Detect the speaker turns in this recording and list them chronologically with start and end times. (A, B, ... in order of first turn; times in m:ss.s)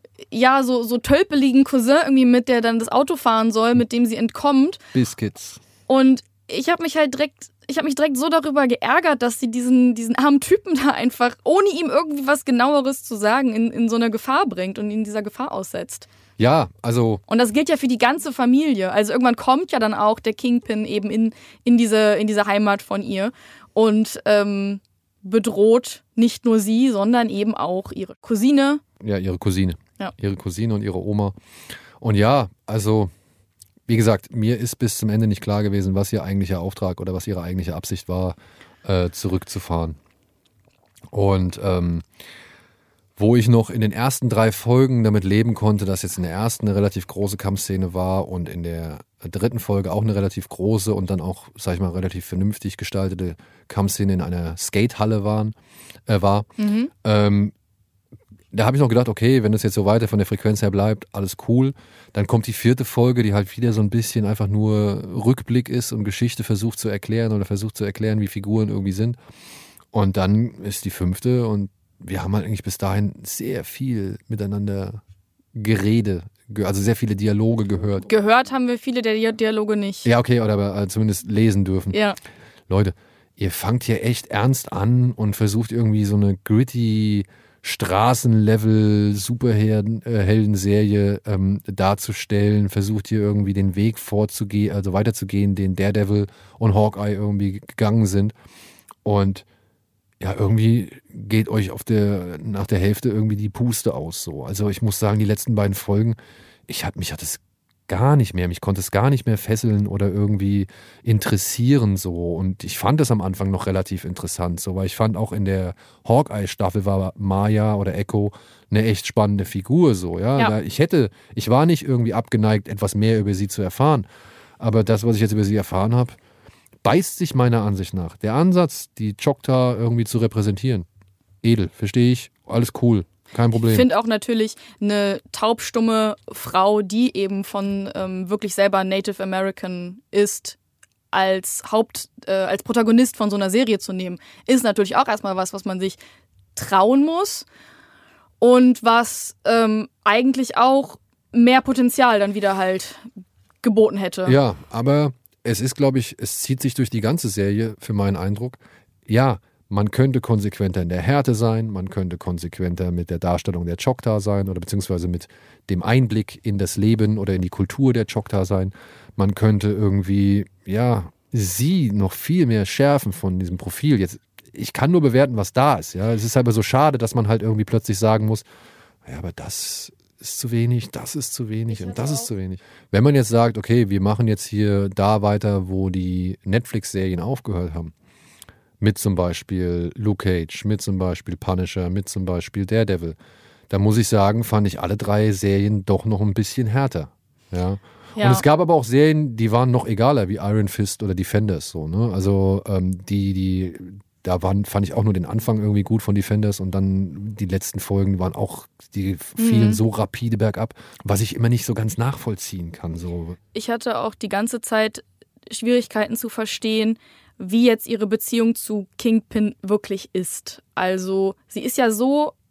0:00.3-0:04.8 A
0:04.9-0:05.6 B
0:05.9-0:16.1 A
0:16.4-0:17.2 B
0:17.3-0:28.8 A
0:29.0-0:31.4 B
0:32.0-0:33.1 B
0:33.9-0:40.0 B
0:41.1-0:42.0 B
0:43.2-0:55.5 B
0:56.1-0:56.5 B
0:56.6-0:56.9 A
0:57.0-0:57.5 B
0:58.5-1:09.2 B
1:09.9-1:15.0 B
1:15.5-1:18.1 B
1:18.1-1:20.1 A
1:20.0-1:22.0 B
1:21.9-1:22.2 A
1:22.7-1:38.3 B
1:39.0-1:39.4 B
1:40.2-1:46.2 B
1:46.7-2:04.1 B
2:04.6-2:06.2 B
2:06.8-2:10.9 B
2:11.4-2:13.9 B
2:13.6-2:20.6 A
2:21.1-2:26.0 A
2:26.5-2:27.4 A
2:28.4-2:33.1 A
2:33.6-2:34.4 A
2:34.2-2:58.4 B
2:59.0-3:07.9 B
3:01.7-3:02.3 A
3:08.8-3:13.2 B
3:13.7-3:33.4 B
3:18.2-3:18.4 A
3:29.4-3:29.8 A
3:33.5-3:42.4 A